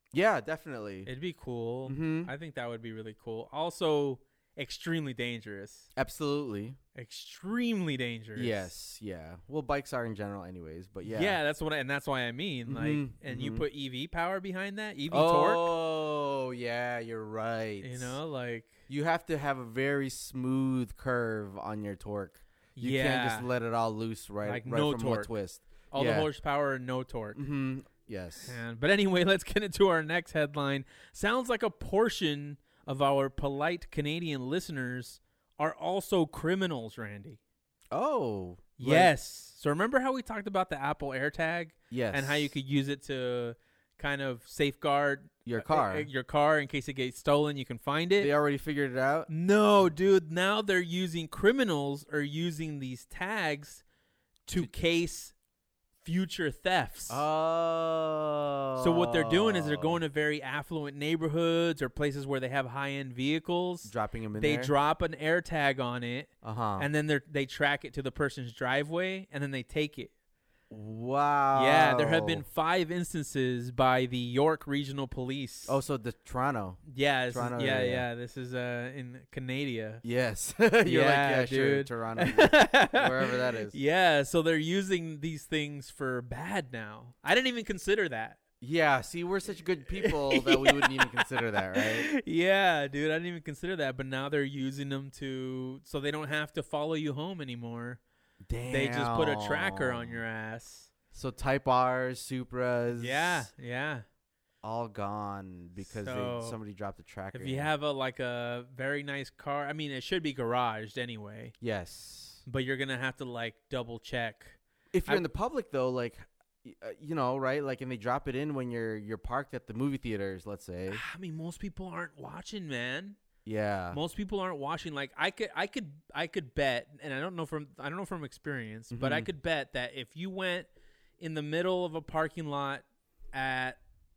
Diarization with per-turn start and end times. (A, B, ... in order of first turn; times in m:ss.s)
0:00.1-0:01.1 A
0:01.0-0:05.9 B
0:01.8-0:02.3 A
0:06.0-0:06.8 A
0:06.9-0:08.7 B
0:08.4-0:11.4 A
0:11.0-0:15.7 B
0:12.7-0:13.6 A
0:15.1-0:18.2 A
0:17.8-0:18.8 B
0:18.9-0:26.3 A
0:22.8-0:23.5 B
0:24.4-0:25.3 B
0:25.9-0:27.4 B
0:27.3-0:28.6 A
0:28.4-0:37.4 B
0:37.9-0:39.1 A
0:38.8-0:48.3 B
0:41.9-0:42.5 A
0:45.4-0:46.1 A
0:48.2-0:49.3 A
0:49.3-0:53.8 B
0:54.4-0:55.3 B
0:56.0-0:57.2 B
0:57.1-1:00.0 A
0:58.8-1:10.1 B
1:03.8-1:04.7 A
1:06.4-1:06.9 A
1:10.7-1:12.4 A
1:11.5-1:15.8 B
1:15.6-1:18.0 A
1:16.8-1:20.0 B
1:20.0-1:23.8 A
1:20.8-1:28.4 B
1:28.6-1:32.1 A
1:30.0-1:38.0 B
1:38.4-1:40.2 A
1:38.7-1:40.9 B
1:41.1-1:43.5 A
1:42.9-1:44.0 B
1:44.6-1:47.7 A
1:45.8-1:46.6 B
1:47.3-1:51.5 B
1:51.6-1:52.4 A
1:52.4-1:55.2 B
1:54.9-2:01.0 A
2:00.9-2:03.2 B
2:03.4-2:04.0 A
2:03.9-2:13.8 B
2:08.9-2:09.3 A